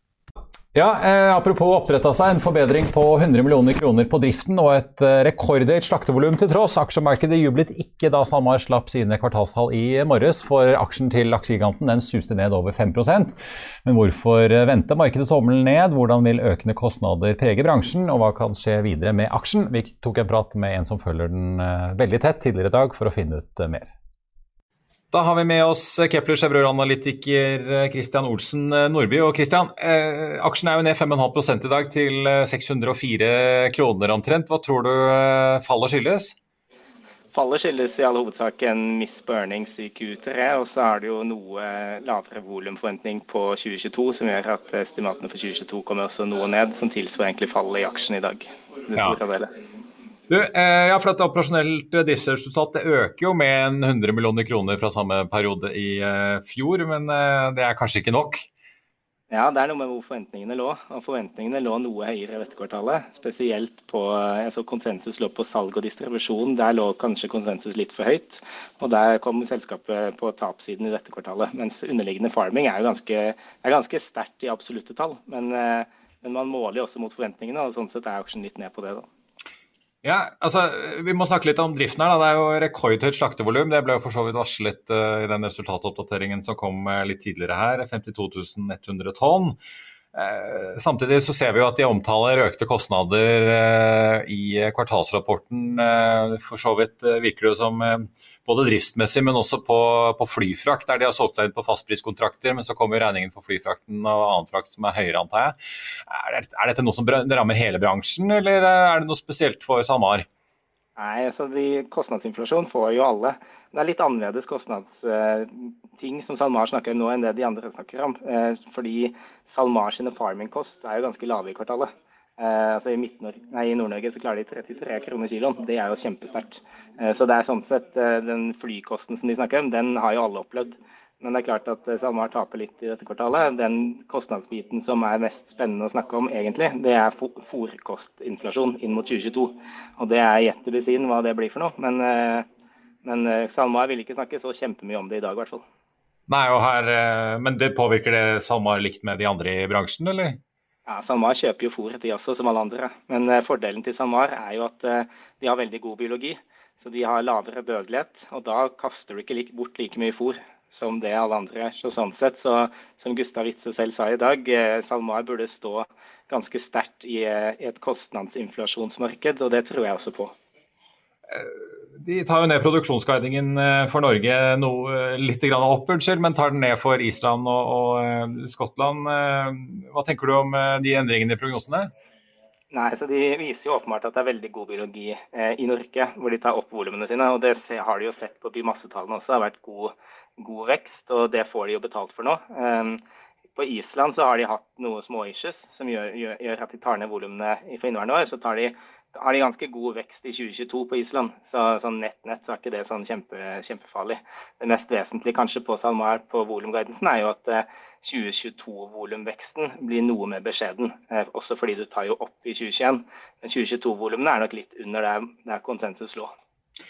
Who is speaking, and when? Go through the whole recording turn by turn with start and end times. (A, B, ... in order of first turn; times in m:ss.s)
0:00.7-0:23.9 A
0:25.1-0:36.4 A
0:37.3-0:49.5 B
0:50.3-0:58.5 A
0:59.3-1:19.1 B
1:20.0-1:29.6 A
1:30.1-1:45.6 A
1:46.1-1:50.3 A
1:51.0-2:22.5 B
2:23.0-2:25.6 B
2:26.3-2:30.4 A
2:30.9-2:50.4 B
2:51.3-3:01.9 A
3:02.7-3:13.0 B
3:13.6-3:36.3 B